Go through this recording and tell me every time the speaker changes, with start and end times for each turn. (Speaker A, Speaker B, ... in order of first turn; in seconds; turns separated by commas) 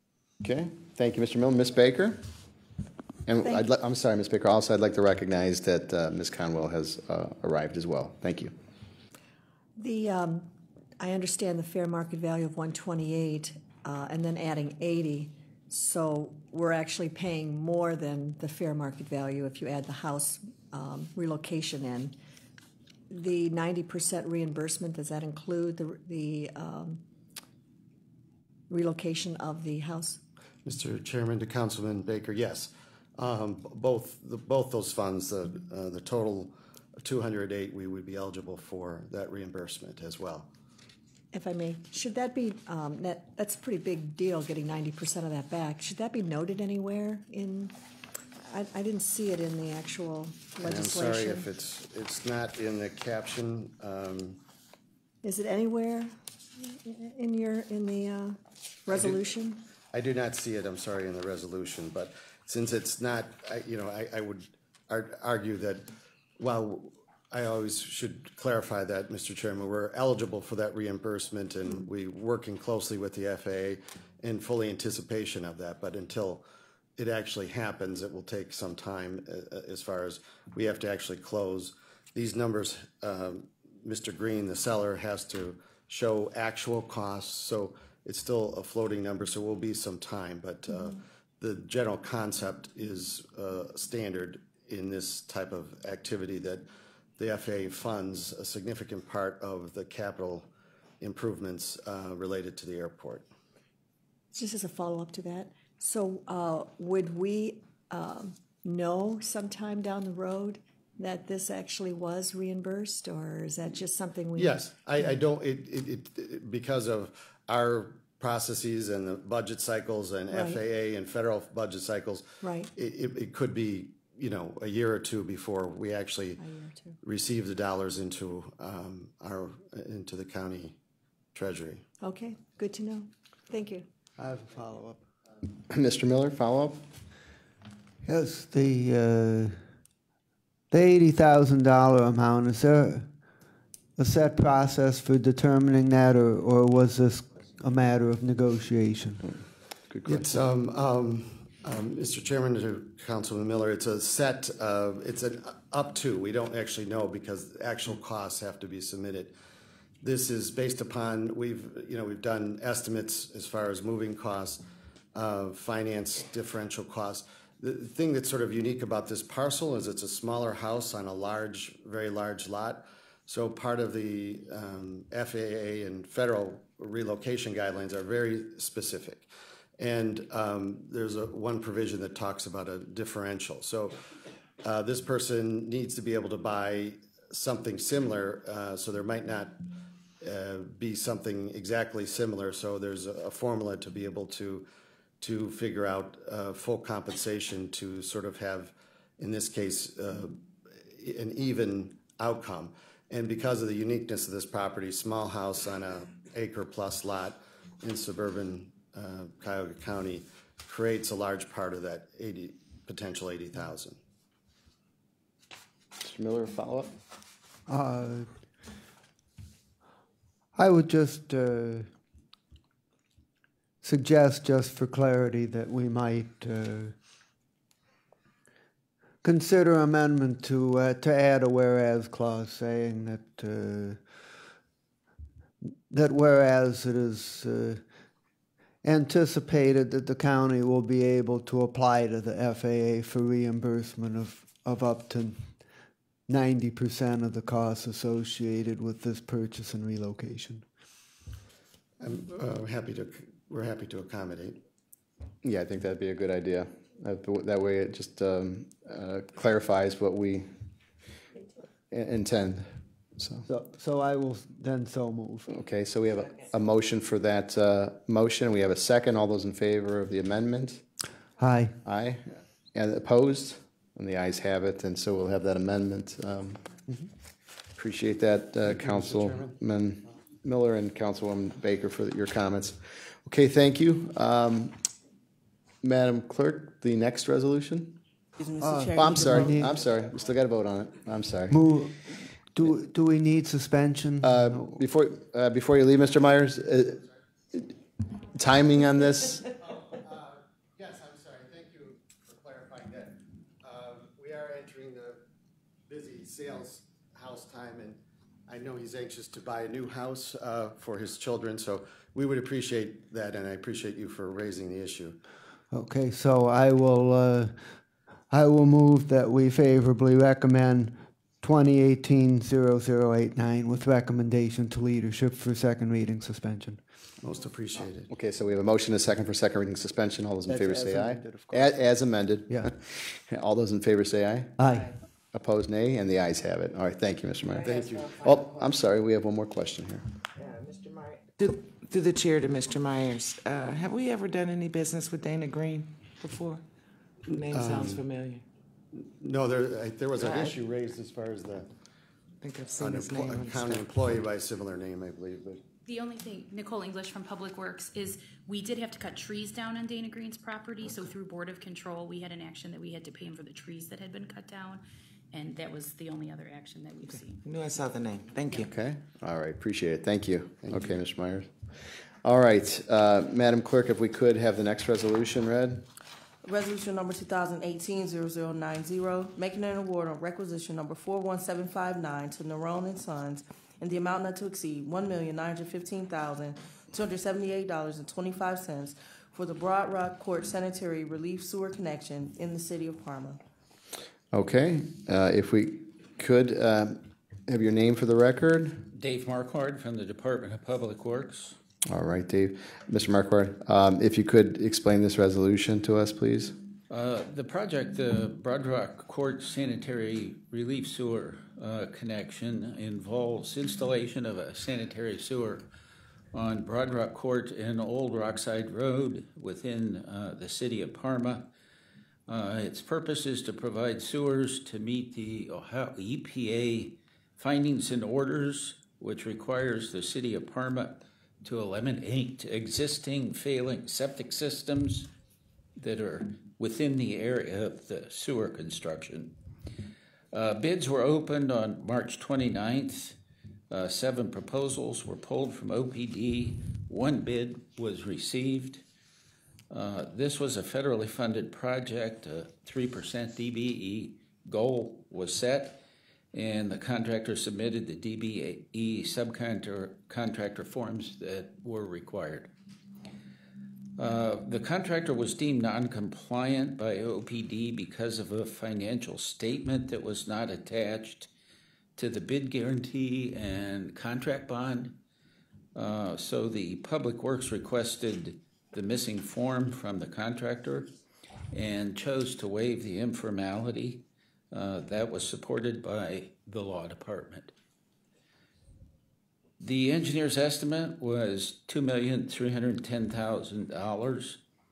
Speaker A: 0.4-2.3, Speaker A: 3.2-8.5, Speaker B: 9.8-22.1, Speaker B: 23.1-27.0, Speaker B: 28.7-30.2, Speaker C: 30.6-40.5, Speaker B: 41.3-47.8, Speaker B: 48.5-51.5, Speaker C: 50.6-54.4, Speaker B: 55.2-59.6, Speaker C: 58.9-59.2, Speaker C: 59.9-65.9, Speaker C: 66.4-76.5, Speaker C: 77.0-96.7, Speaker C: 97.2-100.5, Speaker C: 101.0-103.3, Speaker B: 104.3-114.7, Speaker C: 114.3-126.4, Speaker B: 120.3-120.6, Speaker B: 122.4-122.7, Speaker B: 126.4-127.0, Speaker C: 127.0-130.8, Speaker C: 131.3-131.8, Speaker B: 132.0-133.9, Speaker D: 134.2-135.0, Speaker A: 135.7-136.8, Speaker D: 138.0-139.7, Speaker D: 140.7-143.1, Speaker D: 144.0-149.3, Speaker A: 149.9-150.2, Speaker C: 150.1-159.3, Speaker C: 160.0-164.6, Speaker C: 165.1-179.3, Speaker C: 179.8-184.0, Speaker C: 184.6-189.6, Speaker C: 190.2-194.7, Speaker C: 195.2-214.0, Speaker A: 216.0-216.9, Speaker D: 217.7-218.3, Speaker D: 220.5-221.9, Speaker D: 223.8-226.9, Speaker D: 229.2-234.3, Speaker D: 235.7-237.9, Speaker D: 238.8-245.7, Speaker D: 246.3-250.7, Speaker C: 252.0-254.6, Speaker A: 255.4-260.5, Speaker A: 261.9-263.5, Speaker D: 263.5-265.5, Speaker A: 265.5-270.8, Speaker D: 271.4-271.8, Speaker A: 271.8-276.6, Speaker A: 277.8-284.9, Speaker C: 278.6-279.5, Speaker A: 285.8-288.0, Speaker E: 288.4-289.7, Speaker D: 288.6-289.7, Speaker A: 288.9-291.6, Speaker D: 291.5-294.8, Speaker A: 294.2-297.7, Speaker A: 298.3-299.5, Speaker C: 299.6-305.2, Speaker C: 305.9-315.2, Speaker D: 315.7-326.8, Speaker C: 327.2-328.1, Speaker A: 328.1-334.6, Speaker D: 330.5-331.8, Speaker D: 334.6-334.9, Speaker A: 335.3-340.1, Speaker C: 337.6-338.1, Speaker F: 337.6-338.1, Speaker F: 340.4-346.6, Speaker F: 347.3-348.4, Speaker C: 347.5-348.0, Speaker C: 348.9-351.7, Speaker F: 350.2-350.5, Speaker F: 352.4-354.2, Speaker C: 352.8-355.6, Speaker G: 355.9-367.4, Speaker F: 367.1-368.7, Speaker A: 368.5-375.8, Speaker E: 376.4-393.4, Speaker A: 394.3-398.9, Speaker H: 398.9-401.6, Speaker A: 401.9-406.6, Speaker H: 406.9-415.7, Speaker H: 416.3-421.5, Speaker H: 422.3-435.1, Speaker H: 435.8-439.4, Speaker H: 440.3-443.2, Speaker H: 443.7-448.8, Speaker H: 449.7-455.8, Speaker H: 456.3-462.5, Speaker H: 464.0-471.3, Speaker H: 471.9-475.0, Speaker H: 475.7-480.9, Speaker H: 481.5-487.5, Speaker H: 489.6-494.4